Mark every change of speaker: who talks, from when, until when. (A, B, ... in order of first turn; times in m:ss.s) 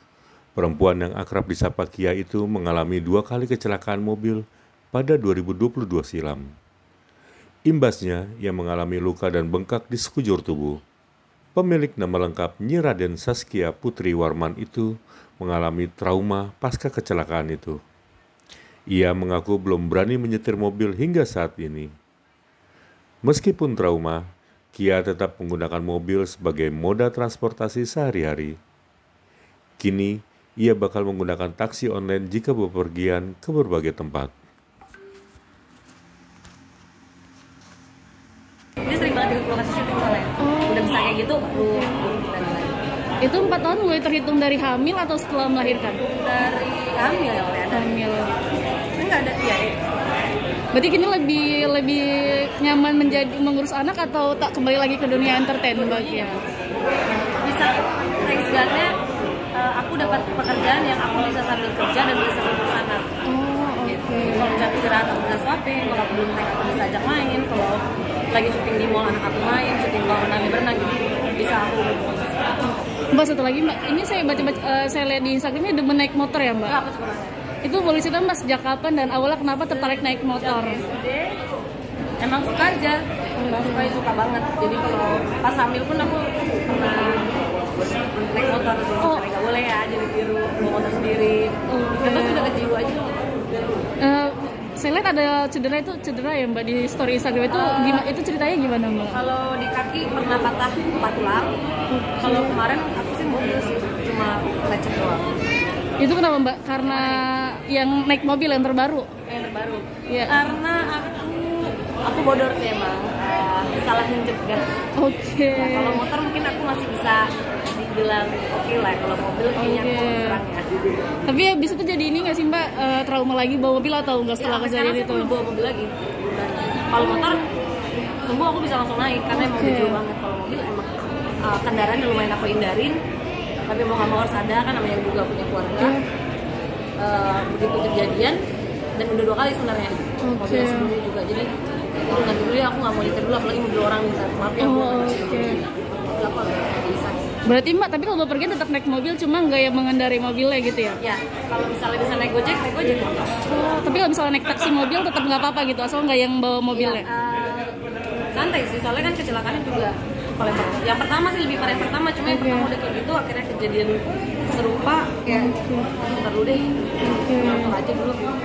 0:00.6-0:06.4 A
0:07.7-0:10.8 A
0:11.6-0:17.8 A
0:18.9-0:21.9 A
0:23.2-0:28.6 A
0:29.8-0:34.3 A
0:38.8-0:42.8 B
0:40.4-0:42.0 C
0:43.2-0:46.0 C
0:46.0-0:47.9 B
0:47.7-0:48.3 C
0:49.0-0:49.8 B
0:50.7-0:56.4 C
0:55.7-0:56.4 B
0:57.1-0:58.9 B
0:59.6-1:03.1 B
1:03.3-1:04.6 C
1:03.8-1:07.8 B
1:08.3-1:12.6 B
1:13.1-1:16.8 C
1:16.7-1:17.4 B
1:17.6-1:20.8 C
1:19.7-1:21.4 B
1:22.2-1:33.2 B
1:23.4-1:24.0 C
1:29.0-1:29.3 C
1:31.7-1:32.5 C
1:34.0-1:39.2 C
1:37.5-1:38.0 B
1:39.1-1:41.6 B
1:41.9-1:42.6 C
1:42.2-1:45.4 B
1:46.0-1:49.1 C
1:46.9-1:47.3 B
1:49.3-1:54.7 B
1:50.1-1:50.5 C
1:55.0-1:56.0 C
1:55.5-2:00.8 B
1:59.6-2:00.4 C
2:01.3-2:05.3 C
2:04.4-2:07.5 B
2:07.0-2:07.5 C
2:08.2-2:13.0 B
2:09.3-2:10.0 C
2:13.6-2:16.0 B
2:15.8-2:16.0 C
2:17.0-2:18.4 B
2:19.0-2:27.3 B
2:20.2-2:20.9 C
2:24.6-2:25.6 C
2:27.5-2:31.0 C
2:31.0-2:33.4 B
2:33.5-2:37.1 C
2:36.7-2:37.8 B
2:38.3-2:46.7 B
2:42.3-2:42.7 C
2:45.3-2:46.0 C
2:46.6-2:47.8 C
2:47.3-2:48.3 B